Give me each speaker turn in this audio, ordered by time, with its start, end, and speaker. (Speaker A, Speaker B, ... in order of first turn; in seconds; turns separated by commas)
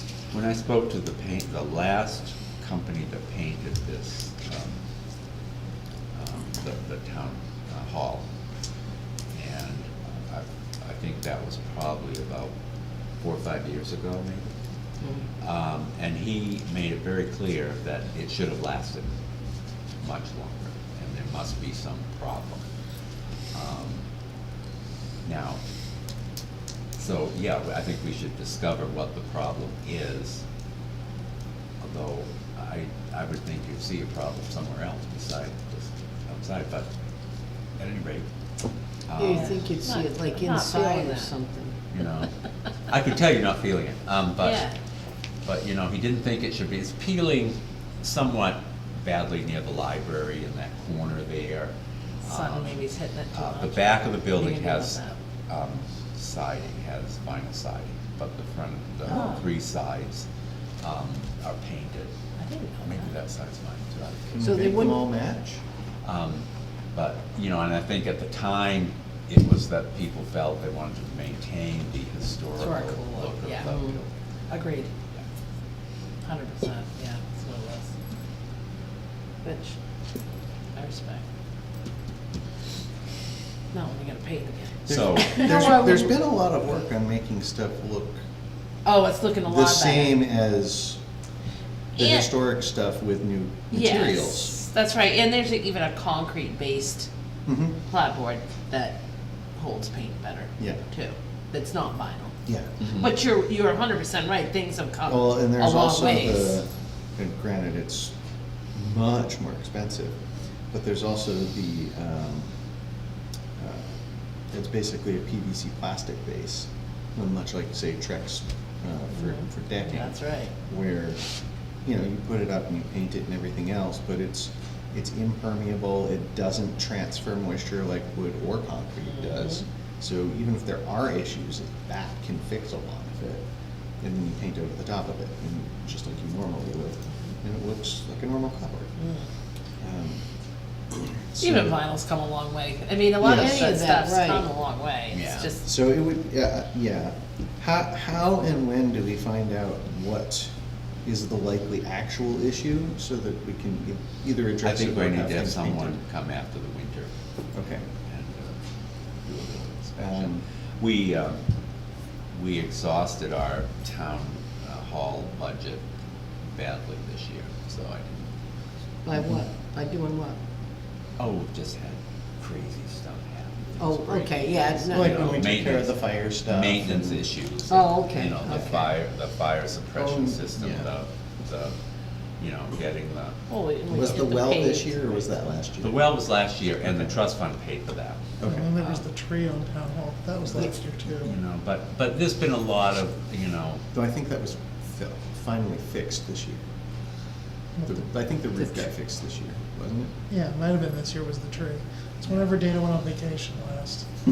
Speaker A: 0.3-4.8, Speaker A: 6.2-8.2, Speaker A: 9.4-12.5, Speaker A: 13.2-14.5, Speaker A: 15.4-19.1, Speaker A: 20.0-22.6, Speaker A: 23.5-24.0, Speaker A: 25.2-25.6, Speaker A: 26.9-30.4, Speaker A: 31.8-36.9, Speaker A: 37.8-38.3, Speaker A: 39.1-39.7, Speaker B: 39.2-41.8, Speaker C: 39.3-41.3, Speaker A: 41.9-42.3, Speaker A: 42.9-44.7, Speaker C: 44.4-44.7, Speaker A: 45.4-60.3, Speaker C: 52.2-55.2, Speaker C: 59.1-59.4, Speaker A: 60.8-62.1, Speaker C: 62.4-63.1, Speaker A: 62.8-64.5, Speaker D: 64.3-65.6, Speaker B: 64.4-65.0, Speaker A: 66.0-74.1, Speaker C: 72.6-73.7, Speaker B: 73.7-74.0, Speaker C: 74.5-74.9, Speaker C: 76.2-77.9, Speaker C: 79.4-79.7, Speaker C: 80.8-81.2, Speaker C: 83.7-86.1, Speaker D: 84.9-88.2, Speaker A: 84.9-85.4, Speaker C: 88.8-90.2, Speaker D: 89.4-91.0, Speaker D: 92.0-94.6, Speaker C: 92.0-92.3, Speaker C: 93.7-97.1, Speaker D: 97.5-97.8, Speaker C: 97.9-99.0, Speaker C: 99.6-106.6, Speaker D: 102.5-102.8, Speaker D: 105.1-108.1, Speaker D: 108.8-110.2, Speaker D: 110.7-112.5, Speaker D: 113.6-114.0, Speaker D: 114.5-121.2, Speaker C: 119.2-120.5, Speaker D: 121.8-133.4, Speaker D: 134.0-138.9, Speaker D: 139.8-140.2, Speaker D: 140.9-141.8, Speaker C: 141.4-145.7, Speaker D: 143.2-143.7, Speaker B: 143.2-144.5, Speaker A: 145.1-145.5, Speaker D: 145.6-150.5, Speaker D: 151.1-156.0, Speaker A: 154.6-157.1, Speaker D: 157.5-157.9, Speaker A: 158.0-158.6, Speaker A: 159.2-161.4, Speaker D: 160.0-160.4, Speaker A: 162.3-165.8, Speaker A: 166.5-168.3, Speaker B: 169.1-170.4, Speaker A: 171.2-181.7, Speaker B: 173.8-175.4, Speaker D: 174.9-177.2, Speaker B: 177.7-178.9, Speaker D: 180.0-180.9, Speaker A: 182.4-183.4, Speaker C: 183.5-185.2, Speaker D: 183.9-186.2, Speaker A: 185.8-188.4, Speaker D: 188.4-188.7, Speaker E: 188.4-191.4, Speaker A: 191.2-193.8, Speaker D: 193.9-196.7, Speaker E: 197.8-198.1, Speaker D: 197.9-200.1, Speaker E: 200.3-204.1